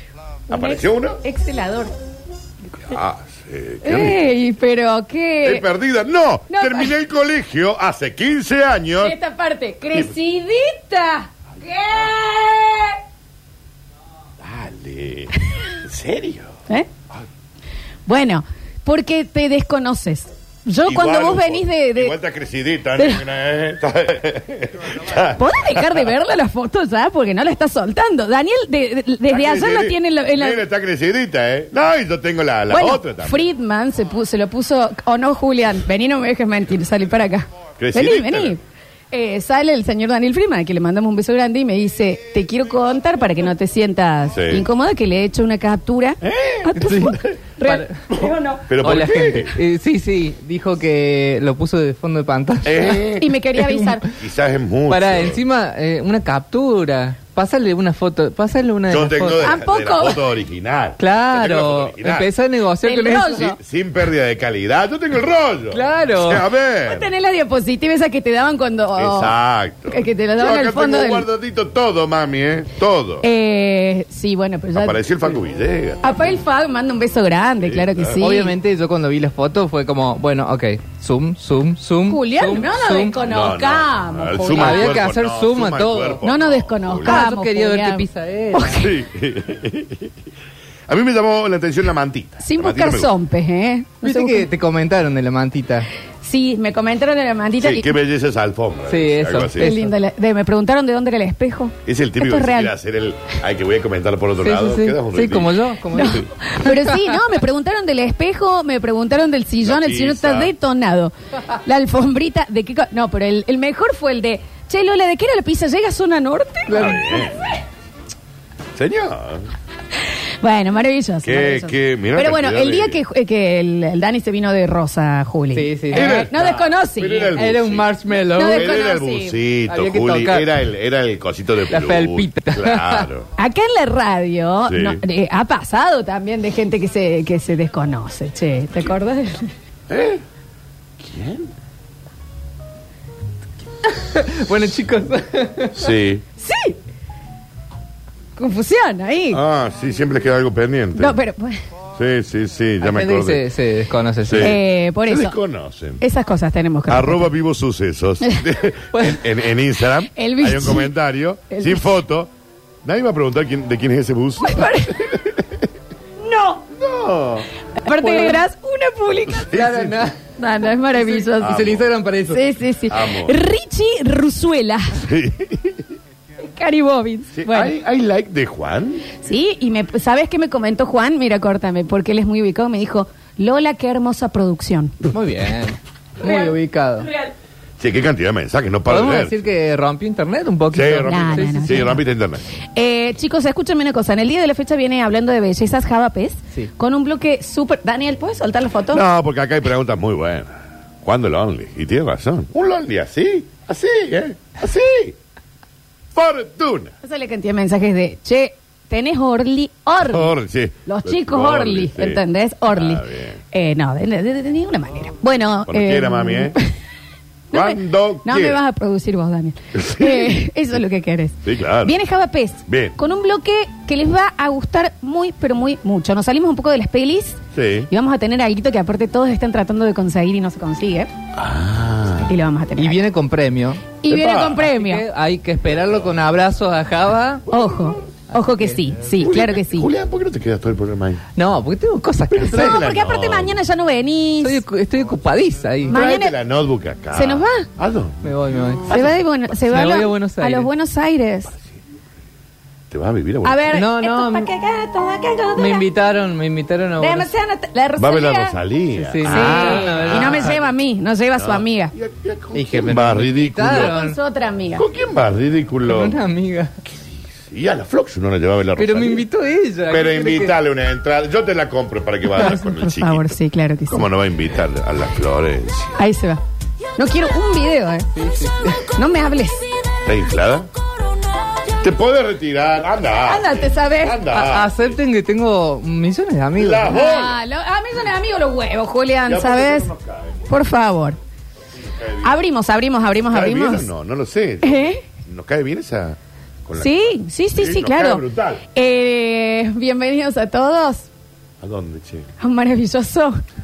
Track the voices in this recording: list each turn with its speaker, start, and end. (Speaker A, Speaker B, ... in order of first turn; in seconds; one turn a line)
Speaker A: 0.5-1.9
Speaker B: 0.5-1.2
Speaker B: 2.8-4.2
Speaker A: 3.8-5.7
Speaker B: 5.4-9.1
Speaker A: 6.5-6.9
Speaker A: 9.0-13.0
Speaker B: 14.4-16.5
Speaker A: 18.1-22.1
Speaker B: 20.8-26.1
Speaker A: 22.9-23.2
Speaker A: 25.2-30.6
Speaker B: 29.3-33.5
Speaker A: 32.7-48.7
Speaker B: 37.8-38.6
Speaker B: 44.3-44.6
Speaker B: 46.2-47.4
Speaker C: 46.8-48.0
Speaker B: 48.7-49.6
Speaker C: 48.7-54.1
Speaker B: 52.6-53.3
Speaker A: 53.2-54.0
Speaker B: 54.1-55.4
Speaker C: 54.9-59.5
Speaker B: 58.9-62.3
Speaker A: 59.4-60.2
Speaker C: 61.0-63.5
Speaker A: 62.8-63.6
Speaker B: 63.4-67.1
Speaker C: 65.7-66.5
Speaker A: 66.8-69.3
Speaker B: 69.0-73.2
Speaker A: 69.9-71.3
Speaker A: 73.2-75.0
Speaker B: 74.7-76.2
Speaker A: 76.0-78.5
Speaker B: 77.6-78.2
Speaker C: 78.2-83.2
Speaker A: 82.1-85.0
Speaker B: 83.2-87.2
Speaker C: 84.4-86.2
Speaker A: 86.2-88.9
Speaker C: 87.0-88.8
Speaker B: 88.7-90.2
Speaker B: 90.9-93.1
Speaker A: 92.4-94.5
Speaker C: 94.0-95.9
Speaker A: 96.2-97.9
Speaker B: 97.6-99.7
Speaker C: 98.9-99.9
Speaker A: 99.6-102.7
Speaker B: 101.8-106.2
Speaker C: 104.4-107.0
Speaker A: 105.9-117.6
Speaker B: 109.6-110.5
Speaker B: 116.7-117.6
Speaker C: 116.7-117.0
Speaker B: 118.7-119.5
Speaker A: 120.4-127.4
Speaker B: 121.2-123.0
Speaker C: 125.5-126.3
Speaker B: 125.9-133.3
Speaker C: 127.3-128.7
Speaker A: 128.3-129.4
Speaker C: 129.7-130.5
Speaker C: 131.7-133.1
Speaker A: 133.4-139.5
Speaker B: 134.7-135.0
Speaker B: 139.9-140.2
Speaker B: 141.0-141.5
Speaker C: 143.9-145.9
Speaker B: 145.7-146.2
Speaker A: 146.4-146.8
Speaker A: 148.3-149.4
Speaker B: 149.3-151.2
Speaker A: 150.9-151.6
Speaker B: 152.0-153.4
Speaker C: 152.8-154.6
Speaker B: 154.2-156.0
Speaker A: 154.3-155.3
Speaker A: 156.0-157.2
Speaker B: 156.9-162.3
Speaker C: 158.9-159.2
Speaker A: 160.1-160.9
Speaker A: 161.5-162.0
Speaker B: 162.8-165.6
Speaker A: 164.4-165.1
Speaker A: 166.2-166.6
Speaker B: 166.7-167.5
Speaker A: 167.8-169.6
Speaker C: 167.9-168.4
Speaker B: 169.5-170.1
Speaker C: 169.5-170.2
Speaker A: 170.4-171.7
Speaker C: 170.8-172.5
Speaker B: 171.4-171.9
Speaker A: 172.3-175.1
Speaker B: 172.9-173.4
Speaker B: 175.0-175.9
Speaker A: 176.4-177.7
Speaker B: 177.3-179.1
Speaker A: 179.2-185.0
Speaker C: 185.1-187.1
Speaker A: 186.2-187.3
Speaker B: 187.8-189.4
Speaker C: 188.8-191.9
Speaker B: 190.7-192.4
Speaker A: 191.0-192.0
Speaker A: 192.7-199.0
Speaker B: 198.9-205.2
Speaker B: 206.1-206.9
Speaker A: 207.0-210.3
Speaker B: 210.0-213.4
Speaker A: 210.8-216.7
Speaker B: 215.7-216.6
Speaker A: 217.5-227.4
Speaker B: 217.5-218.6
Speaker B: 219.8-220.4
Speaker B: 221.4-222.0
Speaker B: 222.7-222.9
Speaker B: 227.5-227.9
Speaker A: 227.9-231.1
Speaker B: 231.3-232.3
Speaker A: 232.2-233.0
Speaker C: 232.8-233.9
Speaker A: 234.0-235.0
Speaker B: 234.1-234.6
Speaker C: 234.5-237.4
Speaker A: 237.5-239.9
Speaker B: 237.5-237.9
Speaker C: 238.3-238.9
Speaker B: 239.2-241.2
Speaker C: 241.3-242.8
Speaker B: 242.3-243.6
Speaker A: 242.4-244.6
Speaker C: 244.4-246.0
Speaker A: 245.9-246.3
Speaker B: 245.9-248.2
Speaker A: 247.1-247.7
Speaker C: 248.2-248.9
Speaker B: 248.8-249.2
Speaker A: 248.9-251.5
Speaker C: 249.6-250.7
Speaker B: 252.9-253.7
Speaker A: 253.4-255.8
Speaker C: 253.7-254.5
Speaker C: 255.6-257.3
Speaker A: 257.0-258.6
Speaker B: 258.0-260.5
Speaker C: 258.9-260.6
Speaker A: 259.2-261.9
Speaker B: 261.3-263.9
Speaker C: 262.5-264.2
Speaker A: 263.7-264.8
Speaker B: 264.8-266.2
Speaker C: 265.9-266.7
Speaker B: 266.9-269.2
Speaker C: 268.8-270.5
Speaker B: 269.9-273.4
Speaker A: 272.3-274.1
Speaker B: 273.9-276.0
Speaker A: 276.0-276.4
Speaker A: 277.0-278.1
Speaker C: 278.1-278.9
Speaker A: 278.8-279.7
Speaker B: 280.0-280.7
Speaker B: 281.8-285.0
Speaker A: 283.2-284.3
Speaker C: 284.3-286.9
Speaker B: 286.5-287.4
Speaker A: 286.9-289.9
Speaker B: 289.2-290.5
Speaker A: 290.5-291.2
Speaker B: 291.9-292.4
Speaker A: 292.2-293.9
Speaker B: 293.3-298.6
Speaker A: 294.6-295.0
Speaker A: 296.8-301.1
Speaker B: 301.6-302.3
Speaker A: 302.4-303.4